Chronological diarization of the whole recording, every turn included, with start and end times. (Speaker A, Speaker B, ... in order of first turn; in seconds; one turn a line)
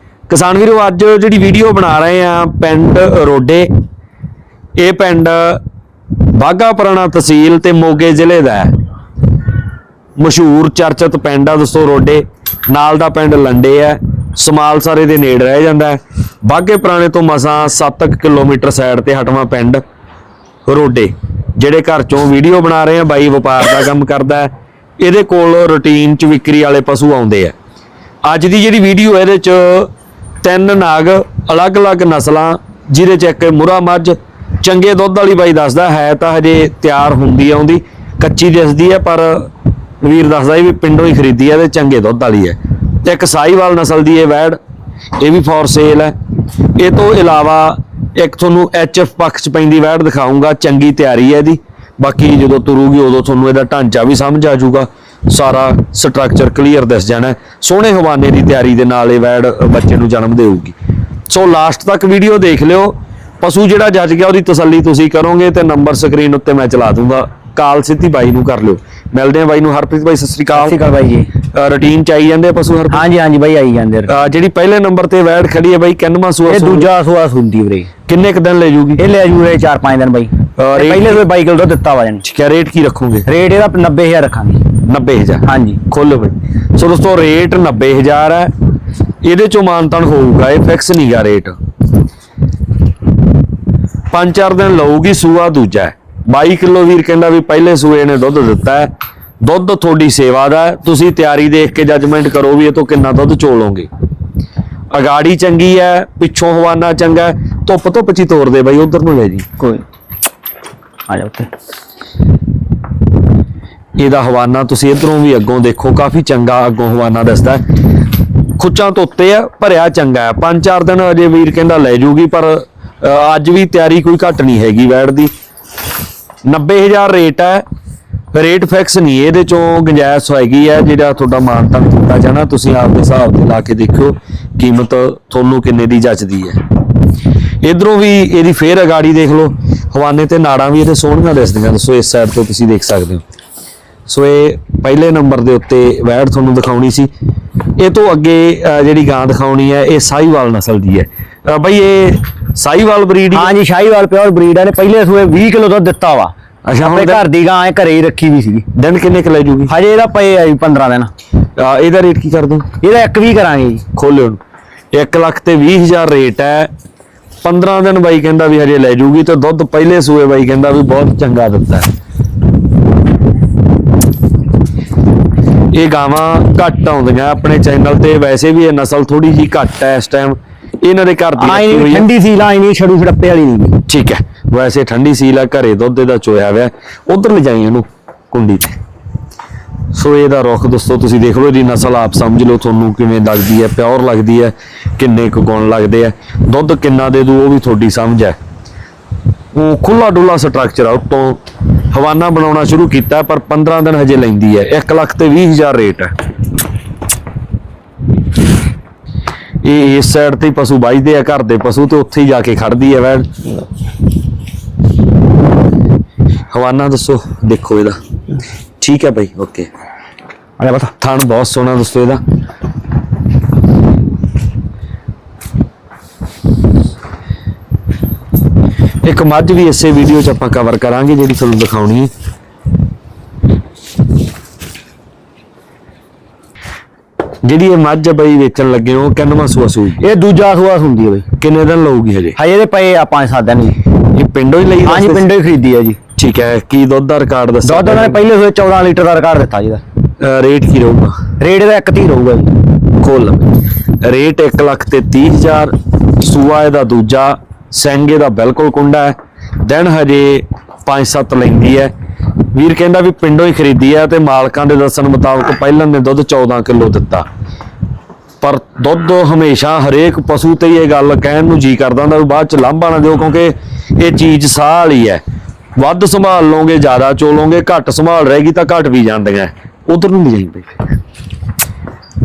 Speaker A: 0.3-3.7
Speaker A: 4.8-5.6
Speaker A: 6.3-8.7
Speaker A: 10.2-19.8
Speaker A: 20.7-27.5
Speaker A: 28.2-29.9
Speaker A: 30.4-44.6
Speaker A: 45.2-46.1
Speaker A: 46.8-60.7
Speaker A: 61.3-70.8
Speaker B: 70.5-71.3
Speaker A: 71.4-73.0
Speaker B: 72.9-74.2
Speaker A: 74.1-76.9
Speaker B: 76.5-77.9
Speaker A: 78.1-79.0
Speaker B: 79.0-82.2
Speaker A: 80.6-81.2
Speaker A: 82.2-83.3
Speaker B: 83.3-84.6
Speaker A: 84.8-88.5
Speaker B: 85.4-85.8
Speaker A: 89.2-91.6
Speaker A: 94.1-103.9
Speaker A: 104.9-109.5
Speaker B: 111.1-111.5
Speaker A: 114.0-117.6
Speaker A: 118.6-125.3
Speaker A: 126.4-127.6
Speaker A: 128.3-136.6
Speaker A: 137.6-143.2
Speaker A: 144.1-147.1
Speaker A: 147.8-153.5
Speaker B: 153.3-158.7
Speaker A: 156.7-157.2
Speaker A: 158.7-159.7
Speaker B: 159.7-161.1
Speaker A: 161.6-162.7
Speaker B: 162.8-163.8
Speaker A: 163.9-164.4
Speaker A: 164.9-166.7
Speaker A: 167.4-171.9
Speaker A: 175.7-182.1
Speaker B: 181.4-183.8
Speaker A: 183.9-188.8
Speaker A: 189.9-198.4
Speaker A: 199.5-206.1
Speaker A: 209.6-213.3
Speaker A: 216.5-218.0
Speaker A: 218.8-219.7
Speaker B: 220.6-220.9
Speaker A: 221.0-222.2
Speaker A: 229.0-232.1
Speaker A: 237.4-240.1
Speaker B: 240.0-241.3
Speaker A: 241.4-242.4
Speaker B: 242.4-243.8
Speaker A: 244.0-245.3
Speaker B: 244.8-246.0
Speaker A: 246.2-248.2
Speaker B: 247.6-249.8
Speaker A: 250.2-251.2
Speaker B: 251.4-252.5
Speaker A: 252.9-261.9
Speaker A: 262.5-267.3
Speaker A: 268.4-275.2
Speaker A: 275.8-280.7